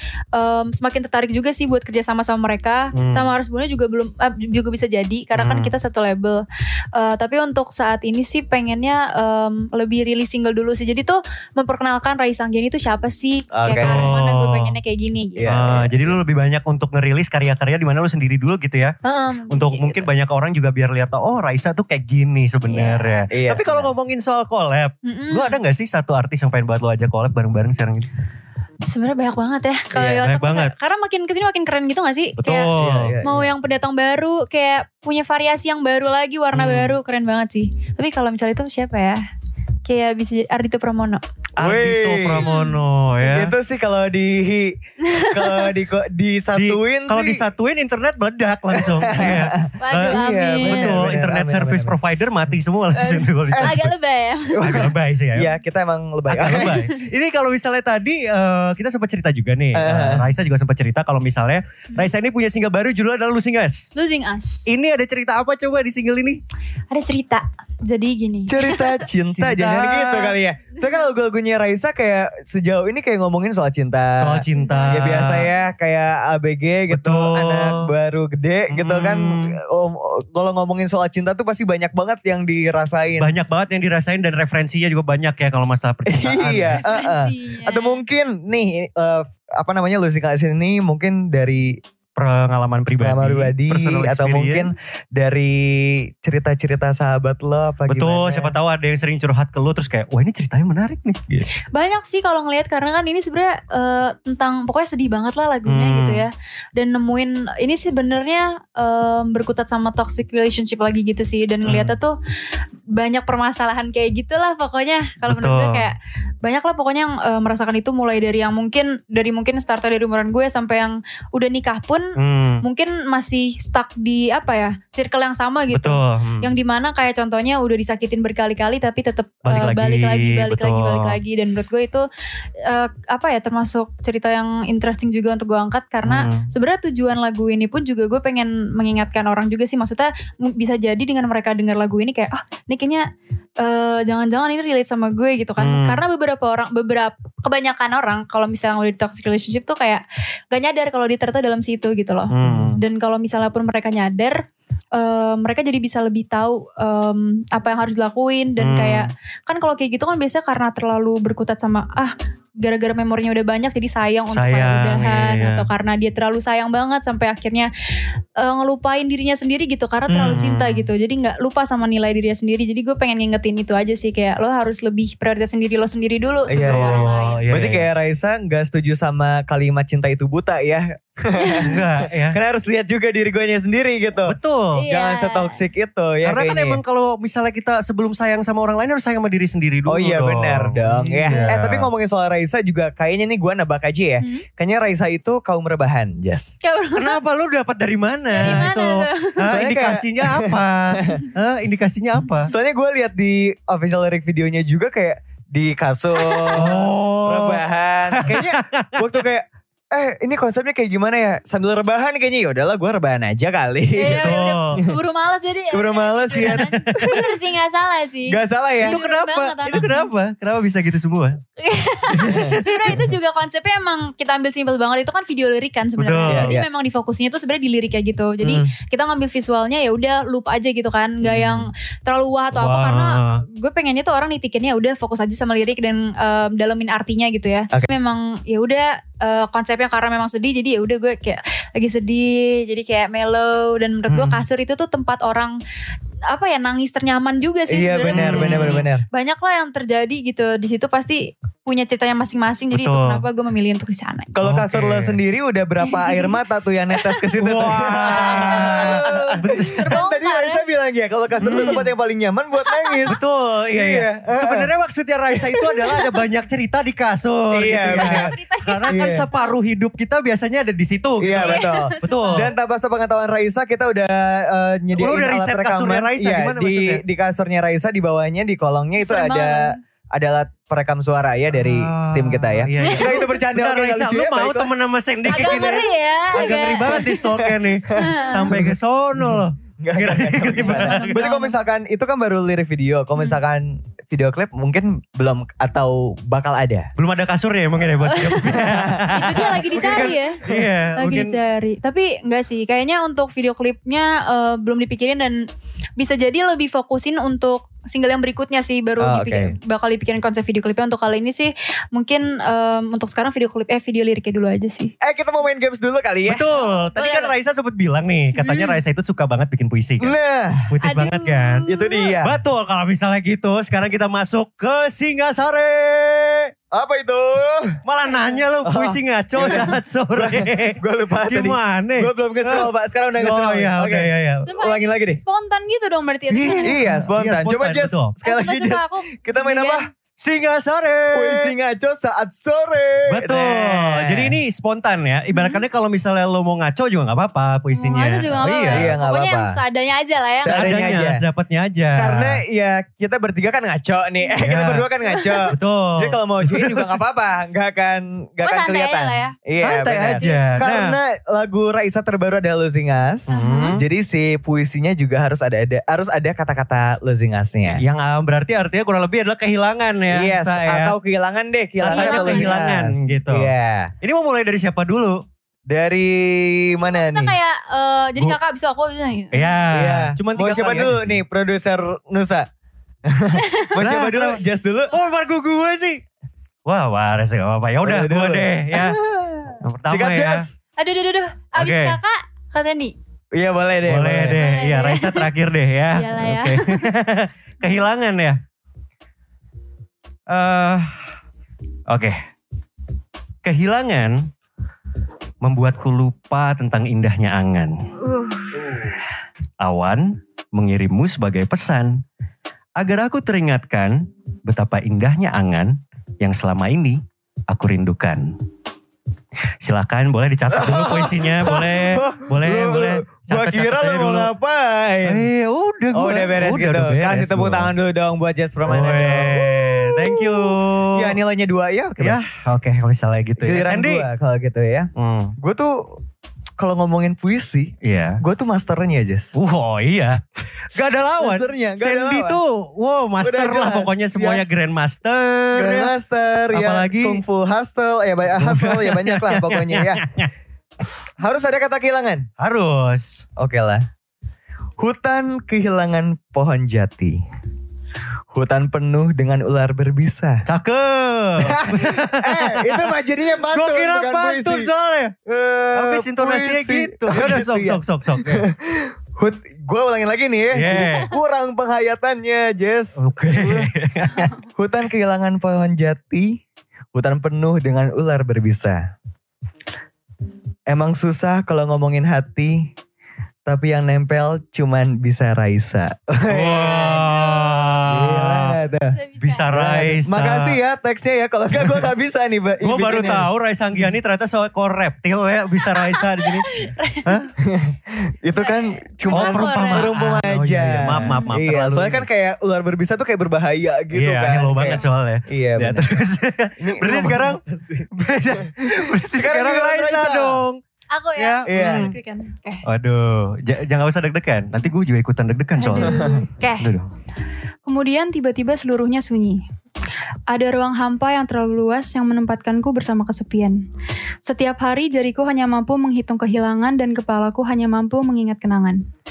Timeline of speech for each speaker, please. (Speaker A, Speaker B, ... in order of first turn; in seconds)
Speaker A: 0.3-6.4, 7.0-15.5, 19.0-20.1, 22.6-23.3, 25.0-25.6, 28.9-32.7, 33.2-39.2, 39.9-41.2, 42.4-42.8, 45.1-45.7, 49.8-51.0, 52.9-54.6, 56.6-57.0, 63.9-64.7, 66.9-69.1, 74.5-75.5, 86.7-88.0, 101.7-112.2, 112.9-132.1, 132.7-143.0, 143.6-154.4, 154.9-167.7, 168.4-177.4, 184.7-185.5, 191.2-191.6, 196.6-197.2, 198.3-199.6, 206.2-206.8, 213.9-220.1, 221.6-245.5, 246.3-254.3, 255.8-256.3, 256.9-257.2, 258.1-260.6, 261.4-261.9, 262.6-263.1, 265.5-266.1, 267.9-269.5, 271.3-272.5, 279.0-279.8, 282.8-283.1, 285.3-287.2, 287.9-288.5, 290.6-291.6, 298.0-300.4, 300.9-305.4, 306.0-314.9, 316.5-317.3, 318.4-318.8, 320.8-322.1, 328.0-328.4, 334.4-336.8, 338.2-339.9, 345.3-345.6, 347.7-350.7, 355.1-355.5, 358.4-359.3, 360.1-360.5, 363.3-363.8, 371.9-372.6, 376.9-379.6, 383.3-383.7, 390.8-392.9, 394.3-395.3, 395.9-396.9, 408.0-408.9, 470.7-471.1, 486.5-487.9, 488.9-489.5, 495.6-497.2, 498.3-499.9, 500.9-501.4, 510.9-512.6, 515.6-516.7, 517.6-519.4, 520.3-523.6, 524.2-528.8
Speaker B: 2.9-3.3, 5.3-5.7, 13.7-14.7, 15.4-18.9, 19.5-28.1, 30.1-30.7, 32.4-33.1, 36.5-37.0, 41.6-43.5, 46.5-53.9, 54.6-55.5, 56.3-63.9, 64.7-66.4, 69.3-70.4, 74.2-75.5, 76.9-77.9, 78.7-79.6, 83.2-86.8, 92.2-94.7, 97.9-101.5, 105.6-106.2, 111.6-111.9, 115.2-115.9, 122.2-122.6, 125.7-126.5, 129.4-131.2, 136.0-136.5, 145.6-146.0, 152.3-152.8, 158.6-159.1, 164.3-165.7, 170.2-170.9, 176.6-177.8, 181.6-182.4, 184.3-184.8, 186.2-191.9, 196.9-202.5, 206.5-209.2, 214.0-214.8, 216.3-216.8, 218.8-221.4, 222.2-223.0, 226.0-226.6, 231.2-231.7, 232.5-233.4, 244.1-244.4, 248.1-248.8, 252.7-253.2, 254.4-255.2, 257.4-259.9, 261.4-261.9, 263.1-272.5, 274.9-277.0, 281.5-291.2, 297.0-301.4, 316.2-320.1, 320.7-321.7, 322.2-326.5, 327.8-334.4, 336.3-338.1, 340.2-341.5, 343.1-349.0, 350.4-352.4, 354.4-354.9, 355.5-357.0, 359.6-360.9, 363.3-363.8, 367.7-370.9, 371.8-375.2, 379.3-381.2, 383.7-384.4, 384.9-386.0, 386.6-389.0, 389.6-390.5, 391.5-392.0, 393.8-398.4, 400.3-401.1, 401.9-402.2, 403.4-404.3, 405.4-407.7, 409.6-412.0, 412.8-418.3, 419.6-424.3, 425.0-427.7, 428.6-431.2, 432.0-434.1, 434.9-435.3, 437.8-438.2, 439.3-440.2, 440.7-445.9, 446.5-447.2, 448.4-450.3, 452.4-453.2, 460.4-465.1, 465.7-468.4, 470.5-471.1, 473.0-474.3, 486.3-488.6, 489.2-490.6, 491.6-491.9, 492.6-497.3, 499.1-502.1, 503.9-510.6, 511.1-511.9, 512.6-516.1, 516.6-516.9
Speaker C: 13.5-14.1, 15.3-16.2, 23.3-23.9, 29.9-30.2, 32.8-33.5, 41.6-42.4, 43.2-47.4, 48.8-52.0, 53.5-53.8, 54.5-56.8, 59.7-60.2, 68.5-83.3, 86.0-91.8, 93.0-98.5, 170.1-170.4, 176.5-181.8, 182.3-184.3, 184.9-186.8, 189.8-196.5, 199.5-201.2, 202.5-214.9, 215.7-217.3, 218.3-219.0, 222.2-222.5, 226.2-226.6, 228.4-228.7, 247.7-249.0, 254.3-263.2, 263.7-264.7, 267.5-268.3, 268.9-269.3, 271.2-284.7, 285.3-285.7, 286.3-296.9, 298.5-300.1, 309.0-309.5, 315.0-316.4, 320.0-320.7, 321.7-322.4, 326.7-327.8, 328.6-335.2, 336.6-339.9, 341.1-344.4, 348.4-349.5, 350.4-351.2, 351.9-367.8, 370.1-373.9, 375.7-377.4, 379.7-382.5, 383.1-384.9, 387.8-390.5, 393.3-394.4, 420.5-425.2, 425.9-432.2, 433.4-436.0, 436.6-439.3, 441.2-442.4, 443.2-444.4, 445.5-450.0, 451.2-452.2, 453.4-453.8, 454.8-457.2, 458.3-460.4, 461.4-464.7, 465.2-473.7, 474.6-476.4, 476.9-478.9, 480.7-482.7, 483.4-486.8, 487.9-488.9, 489.5-493.9, 497.4-505.9, 506.6-510.4, 511.4-511.9, 515.8-516.2